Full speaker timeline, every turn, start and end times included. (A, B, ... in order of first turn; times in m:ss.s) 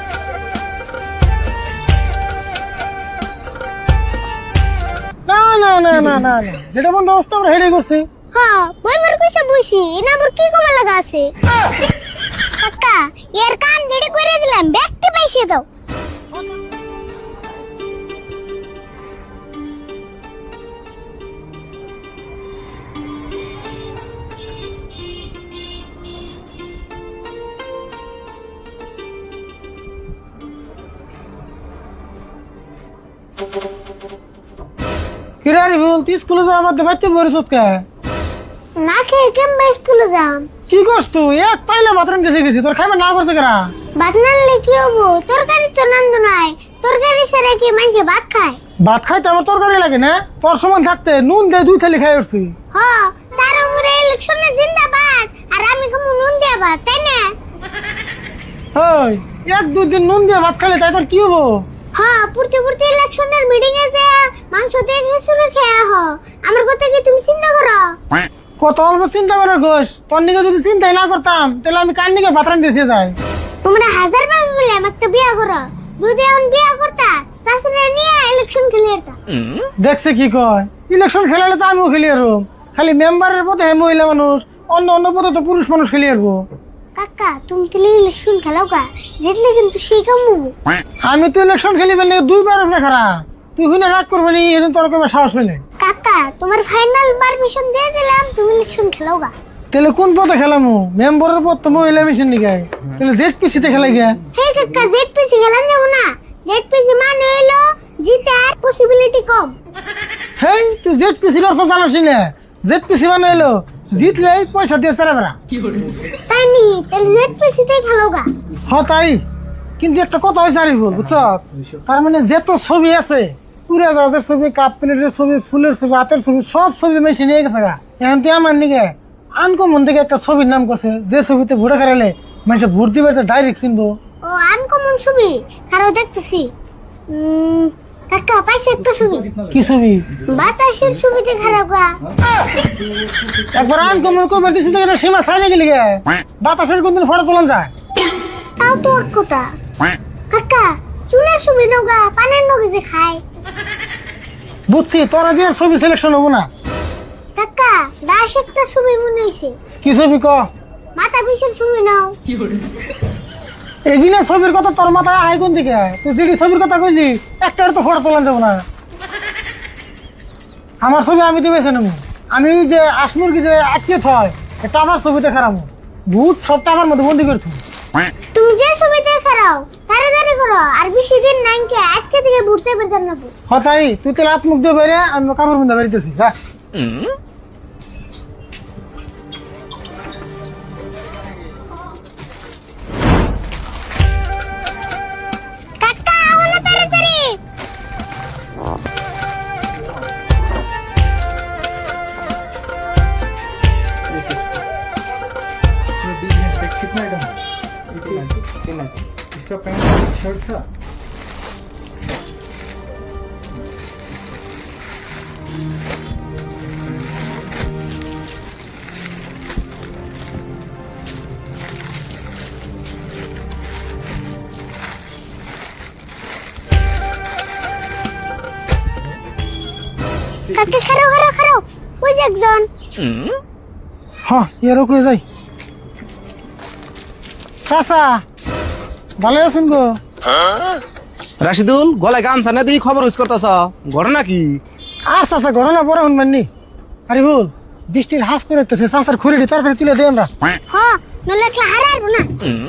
0:05.3-0:08.1 A
0:08.3-0:11.3 B
0:12.6-0:15.6 B
0:35.4-0:37.8 A
0:38.8-0:40.5 B
0:40.7-0:43.7 A
0:44.0-0:48.6 B
0:48.8-0:52.5 A
0:52.7-0:57.3 B
0:58.7-1:01.6 A
1:01.9-1:07.9 B
1:08.6-1:13.2 A
1:13.6-1:19.2 B
1:19.8-1:26.4 A
1:26.9-1:30.5 B
1:31.0-1:35.6 A
1:35.8-1:39.3 B
1:39.7-1:44.2 A
1:44.3-1:49.6 B
1:50.4-1:55.4 A
1:56.3-1:58.3 B
1:58.6-1:59.2 A
1:59.8-2:14.0 A
2:14.2-2:16.5 B
2:17.1-2:19.3 B
2:19.5-2:20.0 A
2:20.3-2:22.0 B
2:23.4-2:27.7 A
2:28.6-2:29.5 B
2:30.3-2:33.2 B
2:34.7-2:36.5 A
2:37.4-2:39.6 B
2:39.8-2:40.4 A
2:41.0-2:42.1 B
2:43.8-2:48.6 A
2:50.8-2:57.6 A
2:58.3-3:03.3 B
3:03.5-3:06.3 A
3:15.8-3:17.4 B
3:50.5-3:52.7 B
3:54.2-3:55.2 A
3:57.6-3:58.2 A
3:59.2-4:00.0 A
4:01.4-4:04.6 C
4:05.1-4:06.5 A
4:07.1-4:10.3 A
4:10.7-4:12.3 B